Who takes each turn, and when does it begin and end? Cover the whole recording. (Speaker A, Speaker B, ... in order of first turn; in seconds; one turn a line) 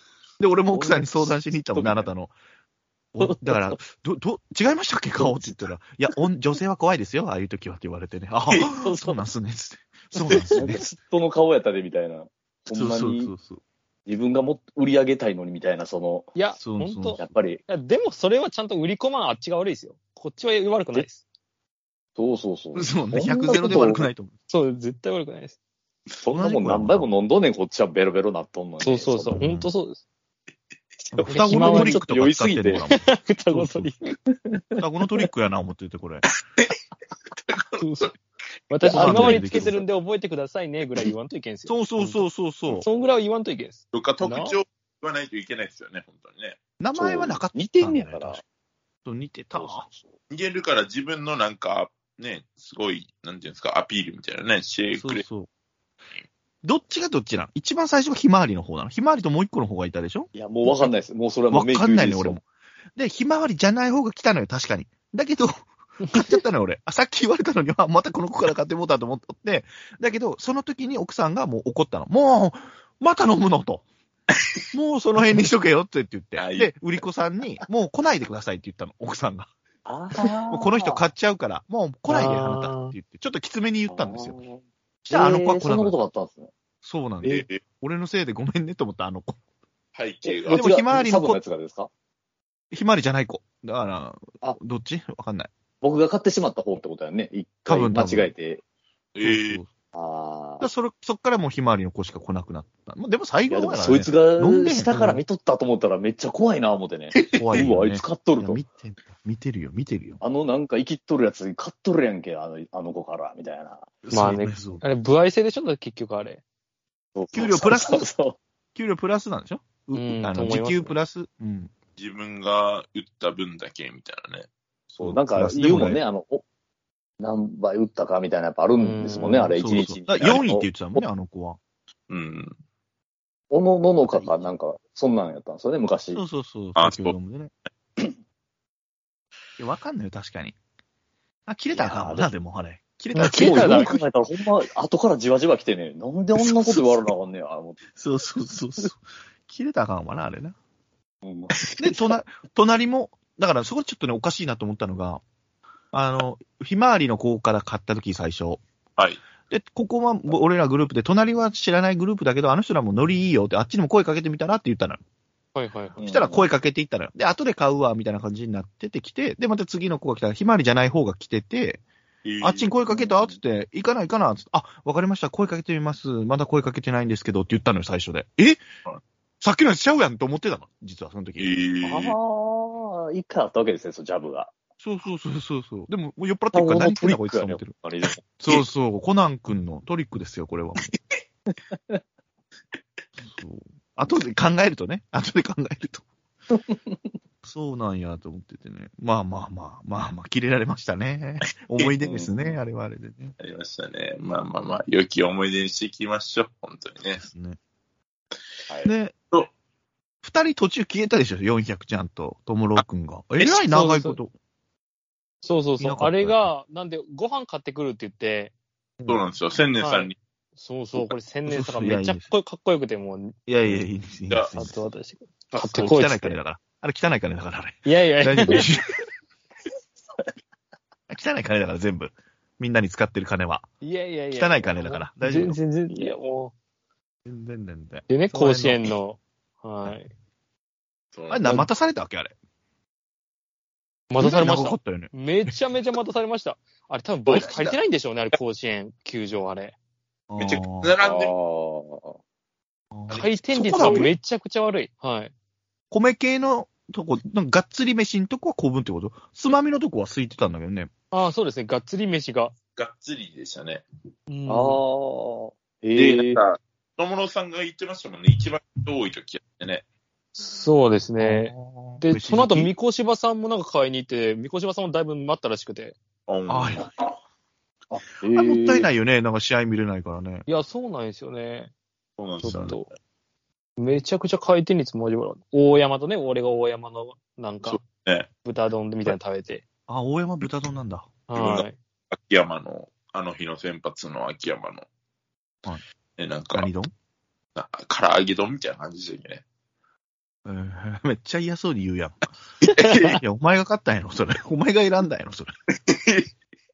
Speaker A: 0.4-2.3
Speaker B: 0.7-2.1
Speaker A: 3.1-10.9
Speaker B: 3.2-3.8
Speaker B: 5.2-5.6
Speaker B: 8.7-9.2
Speaker B: 10.5-13.3
Speaker A: 12.7-13.6
Speaker B: 14.1-16.3
Speaker C: 16.4-21.2
Speaker A: 16.6-17.3
Speaker B: 17.2-17.6
Speaker B: 22.2-24.1
Speaker A: 22.8-24.3
Speaker C: 24.5-25.6
Speaker B: 26.2-29.4
Speaker A: 26.3-27.1
Speaker C: 28.8-30.0
Speaker A: 29.4-29.7
Speaker B: 31.1-32.9
Speaker A: 31.1-33.9
Speaker C: 31.2-32.0
Speaker C: 32.8-34.0
Speaker B: 34.1-34.8
Speaker A: 34.8-36.2
Speaker D: 37.5-38.1
Speaker C: 37.8-38.1
Speaker C: 38.7-44.6
Speaker A: 38.9-39.8
Speaker B: 38.9-39.8
Speaker A: 41.7-42.9
Speaker D: 43.9-46.6
Speaker A: 46.8-48.4
Speaker B: 46.9-48.4
Speaker A: 49.0-49.9
Speaker B: 49.5-50.0
Speaker D: 50.3-55.2
Speaker A: 55.0-55.5
Speaker A: 56.6-60.9
Speaker B: 60.3-62.4
Speaker A: 61.5-62.4
Speaker A: 63.0-73.8
Speaker A: 74.7-79.5
Speaker D: 76.4-76.7
Speaker B: 79.9-81.0
Speaker A: 80.5-84.4
Speaker C: 82.1-82.9
Speaker B: 83.9-86.5
Speaker A: 85.0-85.9
Speaker A: 86.8-89.4
Speaker D: 87.2-87.6
Speaker D: 89.9-90.6
Speaker B: 90.2-91.9
Speaker A: 90.5-91.4
Speaker A: 92.7-95.5
Speaker B: 95.8-98.6
Speaker A: 97.7-98.3
Speaker D: 99.1-99.6
Speaker A: 99.2-99.7
Speaker B: 99.9-100.7
Speaker A: 100.6-105.2
Speaker B: 103.5-108.6
Speaker D: 107.1-107.7
Speaker A: 107.3-110.2
Speaker B: 110.2-113.9
Speaker A: 114.0-114.8
Speaker C: 114.1-116.4
Speaker B: 117.2-118.4
Speaker A: 117.3-118.1
Speaker A: 118.8-121.7
Speaker C: 119.9-120.9
Speaker D: 122.0-124.5
Speaker A: 124.9-126.0
Speaker B: 125.0-126.4
Speaker B: 127.2-131.0
Speaker C: 128.8-129.6
Speaker A: 129.6-131.6
Speaker D: 132.1-132.6
Speaker B: 133.5-136.2
Speaker A: 134.1-134.4
Speaker A: 136.1-137.5
Speaker D: 136.8-137.1
Speaker A: 139.6-140.6
Speaker A: 141.5-144.1
Speaker B: 141.7-142.3
Speaker C: 143.1-143.9
Speaker B: 143.2-147.8
Speaker A: 146.4-147.1
Speaker A: 147.9-150.6
Speaker B: 151.2-151.6
Speaker A: 151.8-155.2
Speaker A: 155.9-158.6
Speaker A: 159.5-165.0
Speaker C: 165.6-166.0
Speaker B: 166.0-166.4
Speaker A: 166.0-171.8
Speaker D: 172.2-172.7
Speaker A: 172.4-178.6
Speaker B: 172.9-173.4
Speaker A: 179.4-181.5
Speaker D: 181.4-182.1
Speaker B: 181.8-184.5
Speaker A: 184.8-187.8
Speaker B: 186.5-188.2
Speaker A: 188.4-190.9
Speaker B: 191.7-192.0
Speaker A: 193.2-196.0
Speaker B: 196.5-197.1
Speaker A: 197.4-203.3
Speaker B: 202.0-202.6
Speaker D: 203.4-207.2
Speaker A: 207.2-207.6
Speaker A: 208.8-209.1
Speaker A: 210.2-214.3
Speaker C: 213.7-214.2
Speaker C: 215.4-218.5
Speaker A: 215.8-216.5
Speaker D: 219.1-220.2
Speaker C: 219.8-223.4
Speaker A: 221.5-222.3
Speaker A: 223.5-224.8
Speaker C: 224.6-226.4
Speaker D: 225.5-225.9
Speaker A: 225.8-228.9
Speaker C: 227.8-228.7
Speaker A: 231.1-233.7
Speaker C: 233.8-236.5
Speaker A: 234.3-235.6
Speaker A: 237.3-238.9
Speaker C: 238.1-240.1
Speaker D: 241.1-241.5
Speaker A: 241.3-242.3
Speaker C: 244.1-249.8
Speaker A: 244.2-245.5
Speaker D: 247.3-247.8
Speaker A: 250.3-250.9
Speaker D: 250.4-251.3
Speaker B: 251.0-252.2
Speaker A: 252.9-254.1
Speaker D: 253.1-254.1
Speaker C: 253.1-255.3
Speaker A: 255.9-260.9
Speaker C: 261.1-262.5
Speaker D: 262.8-263.8
Speaker C: 264.3-264.8
Speaker B: 264.5-266.4
Speaker D: 265.9-269.8
Speaker C: 270.4-276.0
Speaker A: 271.2-272.7
Speaker D: 276.3-277.1
Speaker A: 276.5-276.9
Speaker B: 277.9-278.9
Speaker A: 278.3-280.4
Speaker C: 280.5-281.7
Speaker D: 282.2-282.9
Speaker C: 282.4-282.9
Speaker C: 283.8-287.8
Speaker D: 287.6-288.3
Speaker C: 288.4-289.6
Speaker A: 289.9-291.1
Speaker C: 291.3-291.8
Speaker D: 291.4-294.9
Speaker D: 296.2-296.7
Speaker A: 296.5-296.9
Speaker D: 297.6-299.4
Speaker A: 300.4-302.2
Speaker D: 302.6-303.2
Speaker A: 302.9-305.5
Speaker D: 305.7-306.3